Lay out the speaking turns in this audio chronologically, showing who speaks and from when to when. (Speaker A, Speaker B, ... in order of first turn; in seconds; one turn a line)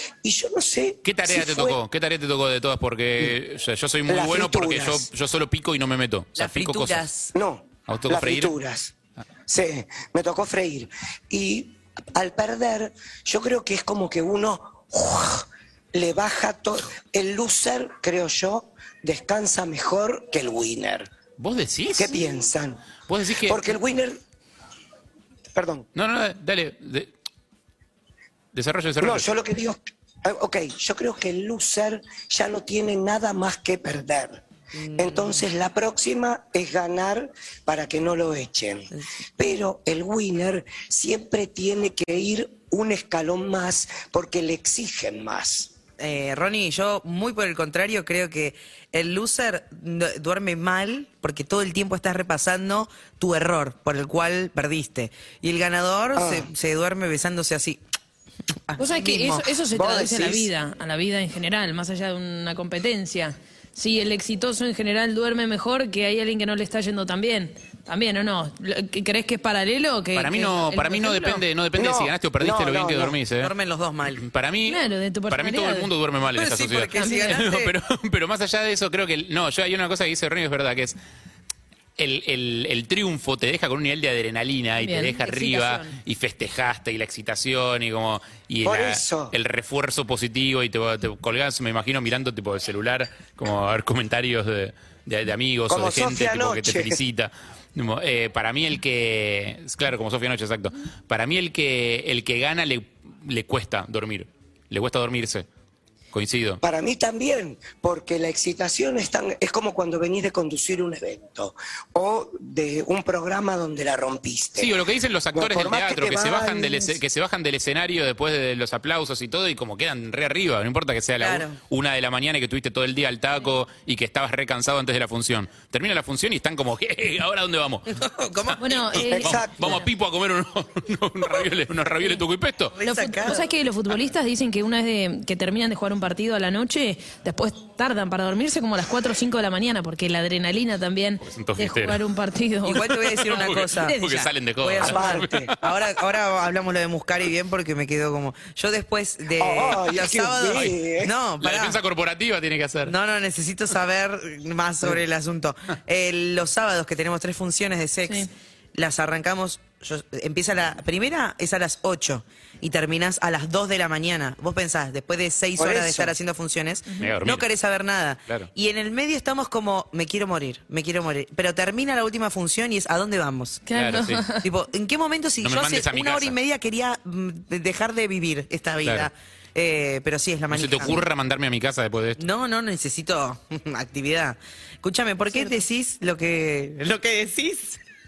Speaker A: 0.2-1.8
Speaker B: 1.0-7.0
Speaker A: 4.1-5.1
Speaker C: 6.4-7.3
Speaker A: 7.3-8.9
Speaker B: 7.9-8.5
Speaker A: 9.5-21.1
Speaker B: 21.4-22.2
Speaker A: 22.0-22.8
Speaker B: 23.1-23.7
Speaker A: 23.4-24.2
Speaker A: 25.5-25.9
Speaker B: 25.9-27.1
Speaker B: 28.5-29.3
Speaker A: 29.0-34.4
Speaker C: 34.8-35.4
Speaker A: 35.0-45.7
Speaker C: 46.0-57.8
Speaker A: 56.2-56.5
Speaker C: 58.7-59.5
Speaker D: 58.8-71.4
Speaker A: 59.7-60.5
Speaker B: 70.2-73.5
Speaker A: 71.8-73.2
Speaker C: 73.4-74.2
Speaker B: 74.2-81.0
Speaker D: 74.7-75.9
Speaker C: 76.3-77.7
Speaker D: 77.0-77.4
Speaker B: 82.0-105.5
Speaker D: 84.8-86.0
Speaker A: 88.6-89.3
Speaker A: 95.7-97.0
Speaker B: 106.1-106.6
Speaker A: 106.6-114.8
Speaker B: 114.6-127.9
Speaker A: 115.3-117.0
Speaker C: 121.2-121.6
Speaker C: 128.0-129.2
Speaker D: 128.6-129.8
Speaker A: 129.0-129.8
Speaker B: 129.2-132.8
Speaker C: 132.8-133.5
Speaker D: 132.8-143.4
Speaker B: 141.2-142.0
Speaker C: 142.7-151.8
Speaker B: 143.3-145.6
Speaker A: 144.8-145.5
Speaker A: 149.4-151.2
Speaker B: 151.4-152.9
Speaker C: 152.8-173.6
Speaker A: 165.6-166.2
Speaker B: 167.0-167.5
Speaker D: 173.7-174.4
Speaker B: 173.7-174.3
Speaker C: 174.4-181.0
Speaker B: 175.4-176.4
Speaker B: 178.8-179.1
Speaker B: 180.5-182.2
Speaker C: 182.2-187.8
Speaker D: 185.3-185.6